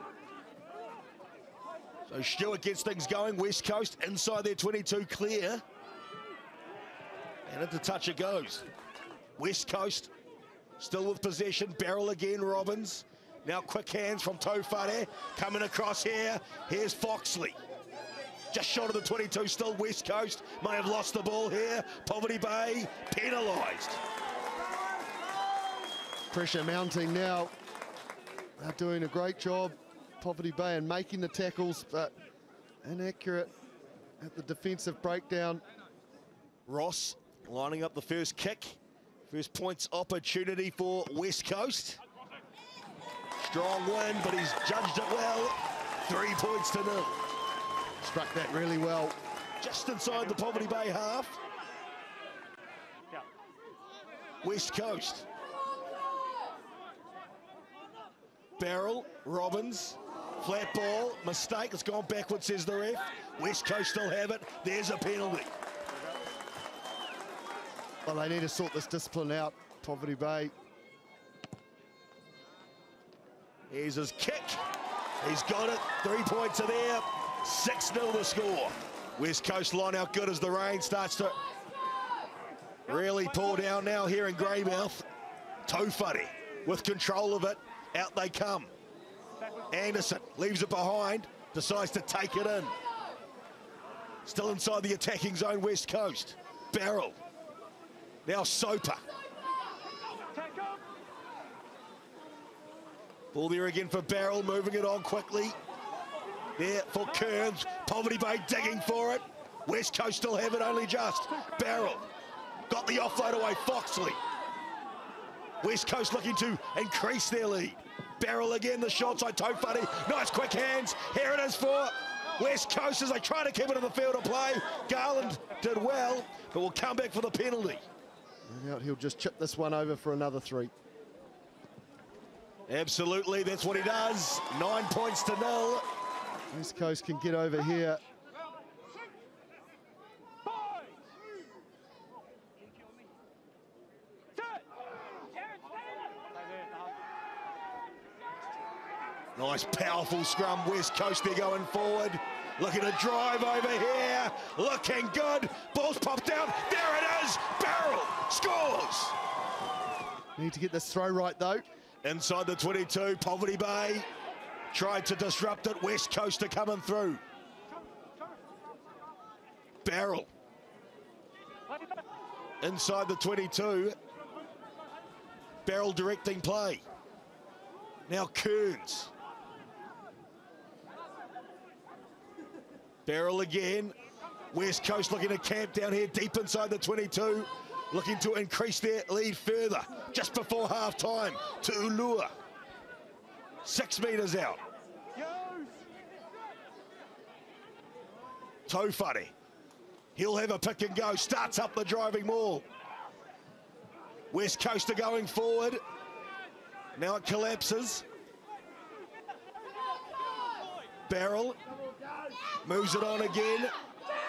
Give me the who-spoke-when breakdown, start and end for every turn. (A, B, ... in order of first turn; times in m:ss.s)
0:02.1-0:05.6 A
0:07.5-0:08.7 A
0:09.4-0:10.1 A
0:10.8-0:17.6 A
0:18.5-0:24.0 A
0:26.3-0:27.5 B
0:28.6-0:32.1 B
0:32.8-0:33.5 B
0:34.2-0:35.6 B
0:36.7-0:42.0 A
0:43.4-0:47.2 A
0:48.0-0:49.2 B
0:49.6-0:51.4 A
0:54.4-0:55.3 A
0:58.6-1:05.5 A
1:08.1-1:10.5 B
1:13.7-1:14.6 A
1:15.2-1:21.4 A
1:22.9-1:25.1 A
1:25.7-1:28.7 A
1:29.7-1:32.7 A
1:34.2-1:37.2 A
1:38.2-1:39.0 A
1:43.3-1:45.6 A
1:46.6-1:52.1 A
1:52.7-1:54.2 A
1:55.6-2:07.8 A
2:08.5-2:10.7 B
2:12.7-2:15.8 A
2:16.5-2:18.0 B
2:29.4-2:39.2 A
2:40.4-2:41.6 B
2:42.0-2:44.1 A
2:44.7-2:47.2 A
2:49.8-2:50.3 A
2:52.6-2:54.0 A
2:55.6-2:56.8 A
2:58.1-2:59.1 A
3:03.1-3:04.0 A
3:04.5-3:12.3 A
3:13.6-3:14.6 A
3:18.7-3:19.3 A
3:20.2-3:22.7 A
3:24.3-3:25.8 A
3:27.0-3:28.0 A
3:31.1-3:31.6 A
3:32.6-3:33.7 A